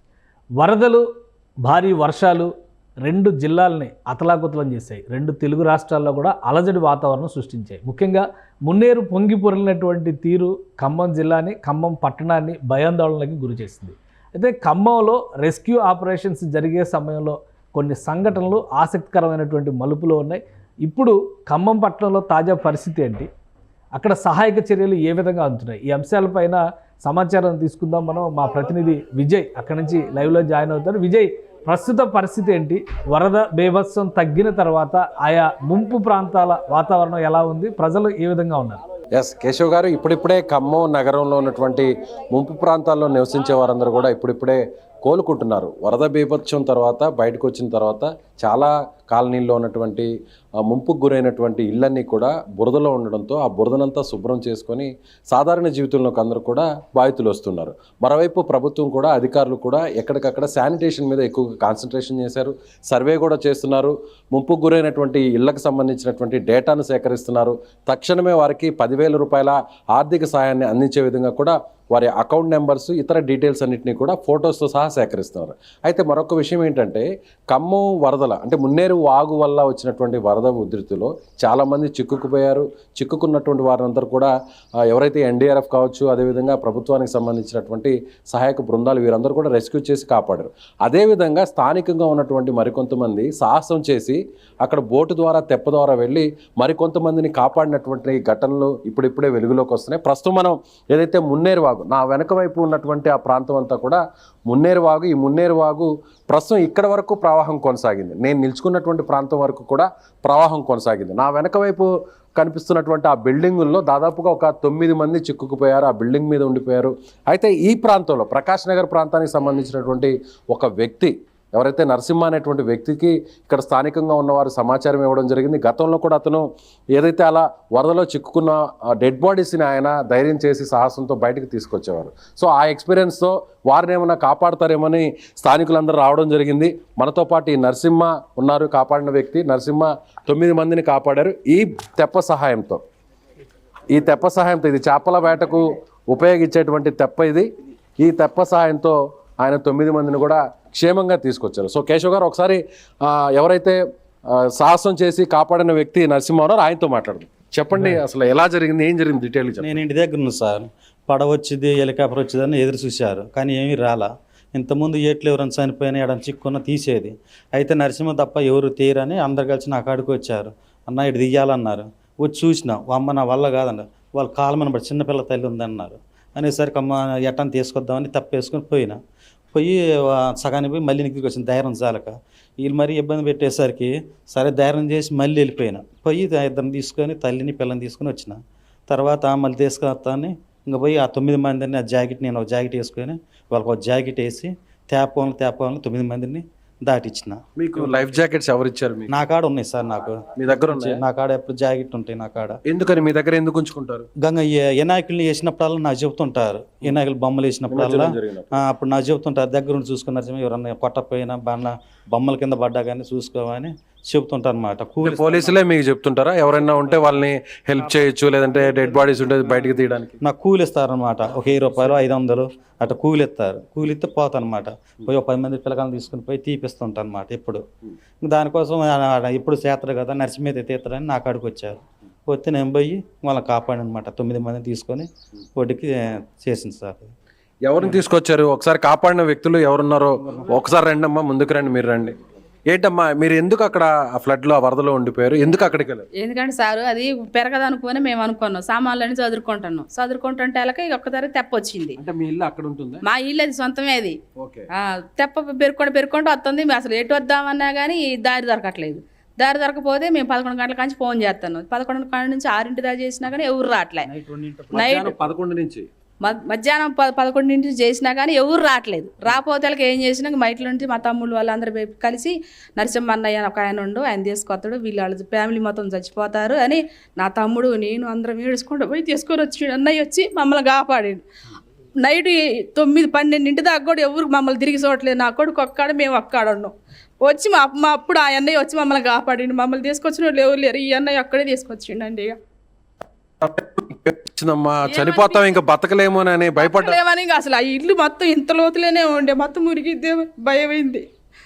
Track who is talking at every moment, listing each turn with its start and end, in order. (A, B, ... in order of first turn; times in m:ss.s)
0:00.6-0:01.0 A
0:01.6-0:02.5 A
0:03.0-0:23.3 A
0:23.9-0:38.8 A
0:39.1-0:50.1 B
0:50.6-1:24.3 B
1:24.8-2:06.4 B
2:07.0-2:22.8 B
2:23.9-2:33.8 B
2:34.3-2:39.7 B
2:37.7-2:38.0 A
2:39.6-2:59.0 C
2:59.5-3:08.4 C
3:08.9-3:18.1 C
3:17.6-3:19.1 B
3:19.1-3:22.6 C
3:20.4-3:21.0 B
3:22.6-3:24.1 B
3:24.2-3:35.6 C
3:27.7-3:28.6 B
3:35.0-3:40.2 B
3:40.2-3:47.6 C
3:48.2-3:57.1 C
3:57.6-4:02.1 B
4:02.7-4:06.0 B
4:06.2-4:12.0 D
4:12.0-4:13.0 B
4:13.0-4:14.2 D
4:14.4-4:14.7 B
4:14.7-4:24.1 D
4:24.0-4:25.0 C
4:24.7-4:25.2 D
4:24.7-4:25.9 B
4:26.2-4:41.2 D
4:42.0-4:52.4 D
4:53.4-4:57.0 B
4:54.8-4:55.5 D
4:56.5-5:01.0 D